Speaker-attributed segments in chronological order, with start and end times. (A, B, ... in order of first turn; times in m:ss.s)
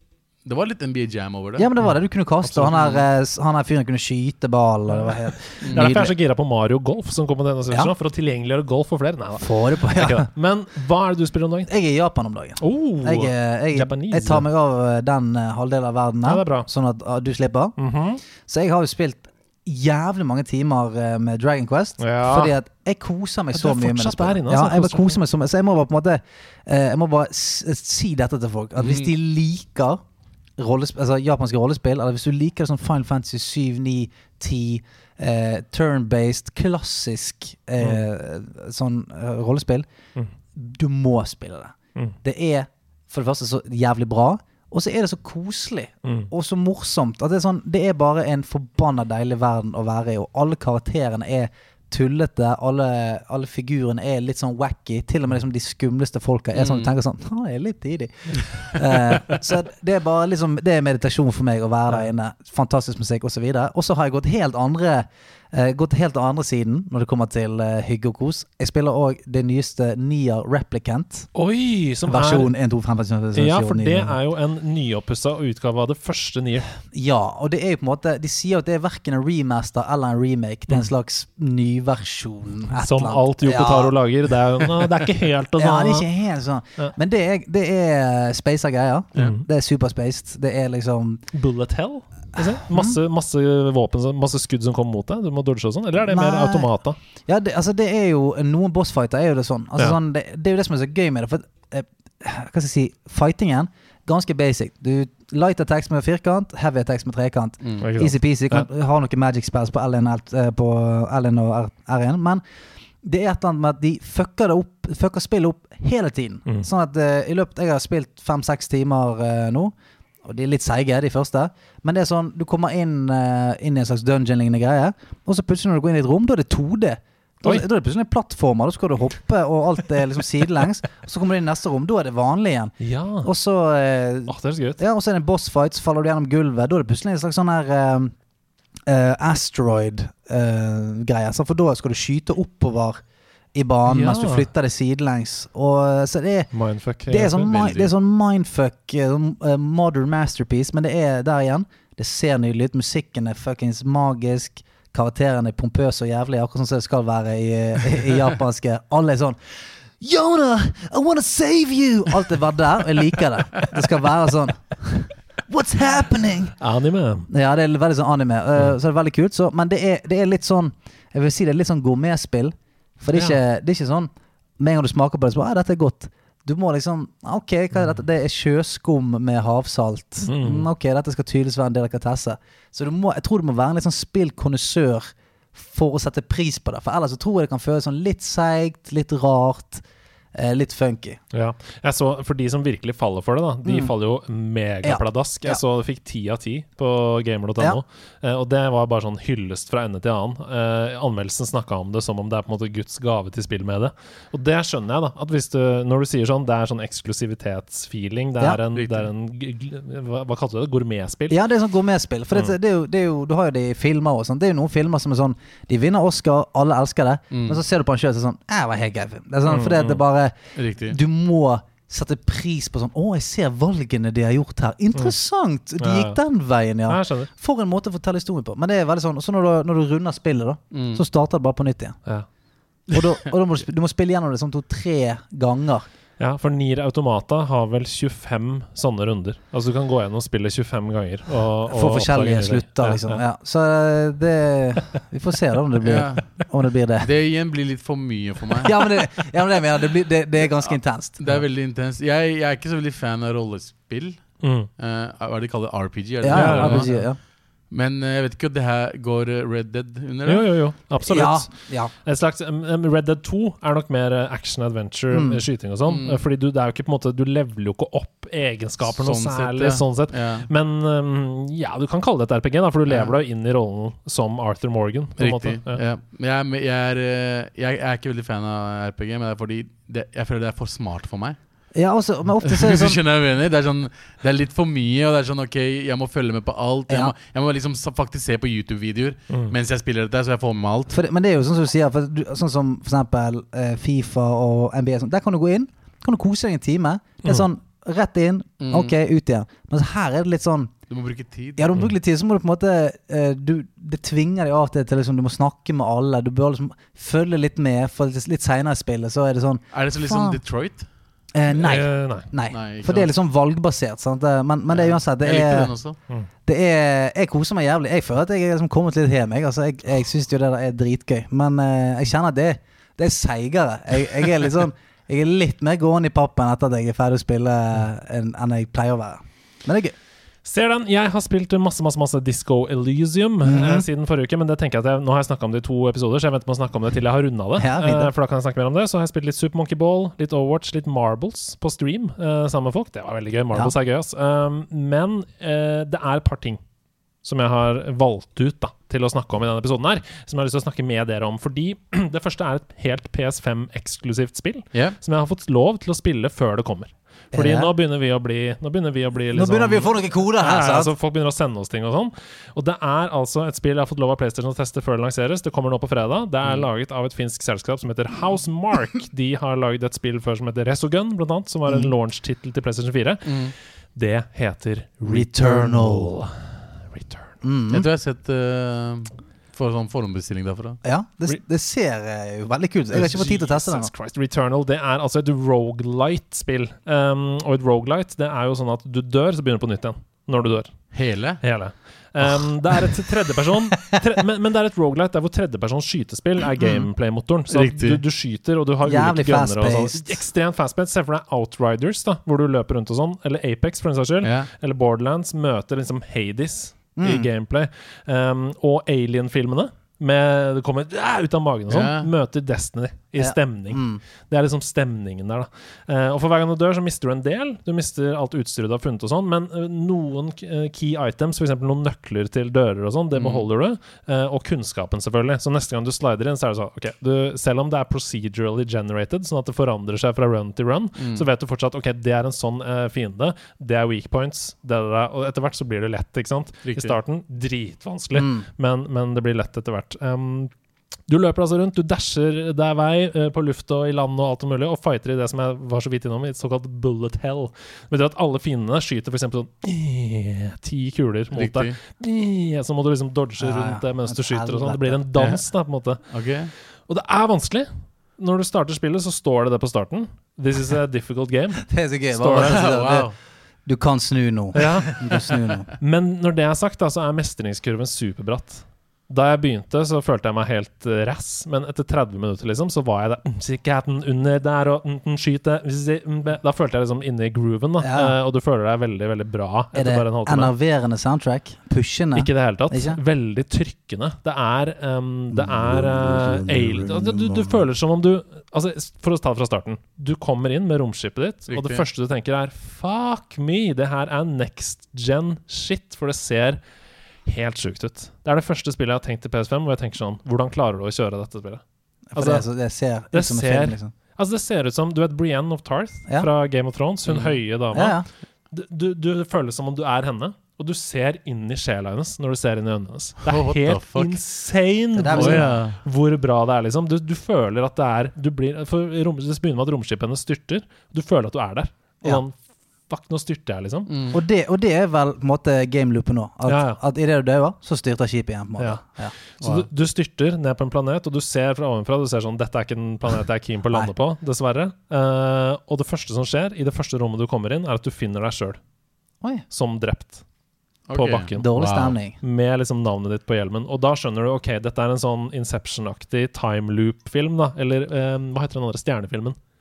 0:00.4-0:01.7 A
0:01.6-0:06.1 B
0:01.8-0:02.9 C
0:02.7-0:03.0 A
0:05.6-0:05.9 A
0:05.7-0:11.7 C
0:09.4-0:10.3 B
0:11.7-0:17.8 B
0:12.6-0:14.4 C
0:16.2-0:16.7 C
0:17.8-0:18.2 C
0:18.4-0:30.0 B
0:22.0-0:22.5 C
0:23.5-0:25.2 C
0:28.8-0:29.1 A
0:30.6-0:39.8 B
0:40.5-1:11.3 B
0:46.0-0:46.3 C
0:56.5-0:56.9 A
1:11.3-1:12.5 C
1:12.1-1:14.2 B
1:13.3-1:16.7 C
1:16.9-1:24.0 B
1:22.7-1:26.1 C
1:25.6-1:31.2 B
1:29.2-1:29.4 C
1:31.3-1:37.0 C
1:32.4-1:33.0 B
1:36.0-1:36.7 B
1:37.2-1:52.4 B
1:47.8-1:48.6 C
1:53.0-1:59.7 B
2:00.2-2:18.1 B
2:12.8-2:13.3 C
2:14.3-2:14.8 C
2:18.9-2:23.0 B
2:23.5-2:26.5 B
2:23.9-2:24.5 C
2:26.5-2:27.4 C
2:27.1-2:39.4 B
2:27.4-2:27.9 A
2:40.0-2:46.5 B
2:46.6-2:47.3 C
2:47.3-3:11.2 B
3:00.2-3:00.7 C
3:11.3-3:31.4 C
3:13.6-3:13.9 B
3:14.8-3:15.6 B
3:28.7-3:29.1 A
3:31.3-3:40.3 B
3:37.3-3:37.6 A
3:39.4-3:40.0 C
3:40.6-3:41.0 A
3:40.9-3:52.0 B
3:45.8-3:46.2 C
3:46.9-3:47.3 C
3:50.7-3:51.0 A
3:52.9-3:55.8 B
3:56.2-4:03.2 C
4:01.7-4:07.1 B
4:05.8-4:06.4 A
4:07.0-4:08.7 A
4:08.6-4:11.3 B
4:11.2-4:14.3 A
4:14.4-4:14.7 C
4:14.8-4:17.0 A
4:16.2-4:17.2 B
4:16.3-4:17.0 C
4:17.7-4:20.5 A
4:20.2-4:21.5 C
4:21.0-4:21.9 B
4:22.0-4:35.8 C
4:25.1-4:25.4 B
4:25.9-4:26.2 A
4:28.8-4:30.5 A
4:35.2-4:41.4 A
4:41.7-4:43.0 B
4:42.4-4:51.0 A
4:46.9-4:47.1 B
4:50.9-5:00.7 B
4:58.6-4:58.9 A
5:00.9-5:01.7 A
5:01.6-5:10.4 B
5:09.7-5:10.8 A
5:11.3-5:15.7 B
5:11.5-5:12.3 C
5:12.5-5:13.1 A
5:14.7-5:16.0 A
5:16.4-5:29.9 B
5:30.4-5:46.6 C
5:33.4-5:33.9 B
5:37.6-5:38.1 B
5:47.2-6:13.4 C
5:57.3-5:57.7 B
5:59.3-6:00.9 B
6:13.2-6:13.5 A
6:13.9-6:17.3 C
6:15.0-6:16.1 B
6:17.4-6:17.8 B
6:17.7-6:20.8 A
6:20.8-6:23.9 B
6:22.9-6:30.7 C
6:30.9-6:31.4 A
6:31.4-7:20.5 C
6:36.6-6:36.9 B
6:37.5-6:38.0 A
6:38.8-6:40.2 B
6:44.2-6:44.5 A
6:47.0-6:47.3 B
6:51.7-6:52.1 A
6:53.2-6:54.0 B
7:03.1-7:03.4 A
7:11.0-7:11.2 A
7:16.6-7:17.0 A
7:18.1-7:18.4 B
7:21.1-7:36.0 C
7:31.3-7:31.7 A
7:33.4-7:35.0 B
7:36.1-7:36.5 A
7:36.9-7:42.7 C
7:41.6-7:43.1 B
7:42.4-7:43.1 A
7:43.6-7:45.7 B
7:44.5-8:00.5 C
7:57.8-7:58.1 B
7:59.7-8:03.0 B
8:02.1-8:16.6 C
8:05.4-8:07.5 B
8:11.5-8:11.8 A
8:17.2-8:21.6 C
8:22.1-8:23.9 B
8:22.2-8:22.4 C
8:23.1-8:42.4 C
8:27.1-8:27.3 A
8:27.7-8:28.0 B
8:33.2-8:34.2 A
8:34.9-8:35.6 B
8:35.1-8:35.8 A
8:42.9-8:43.9 C
8:43.9-8:44.2 A
8:44.1-8:49.1 B
8:46.4-8:46.8 C
8:49.4-8:58.6 C
8:49.4-8:49.6 A
8:59.5-9:00.2 C
9:00.9-9:01.9 A
9:00.9-9:01.5 C
9:01.4-9:02.2 B
9:02.2-9:09.4 C